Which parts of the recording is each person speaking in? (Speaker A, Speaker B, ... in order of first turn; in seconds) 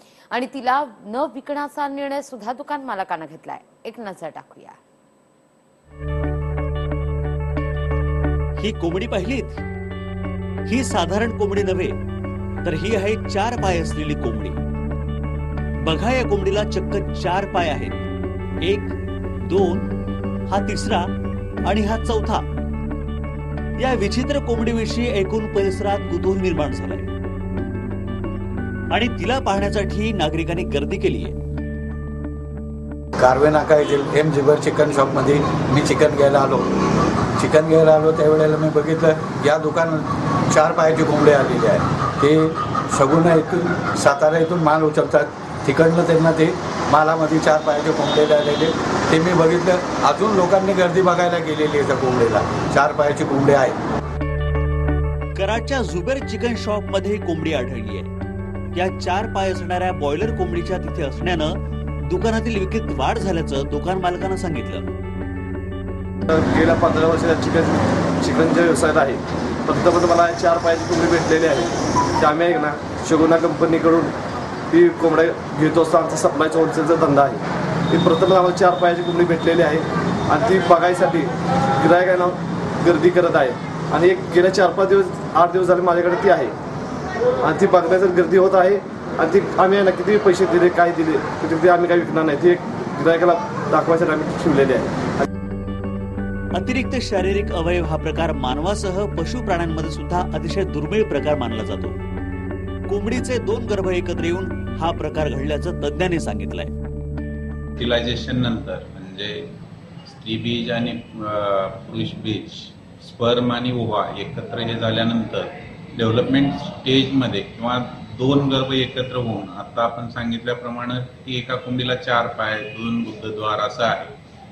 Speaker A: 0.3-4.8
Speaker B: 8.6-9.6, 10.7-11.9, 12.6-14.6, 15.8-18.0, 18.6-19.9, 20.5-21.1, 21.6-22.5, 23.8-27.1, 28.9-31.4, 55.3-58.1, 58.7-64.8, 96.5-102.0, 102.9-106.7
Speaker C: 33.2-36.7, 37.4-53.8
Speaker D: 66.3-74.1, 74.7-86.5, 87.4-95.2
Speaker E: 107.8-124.2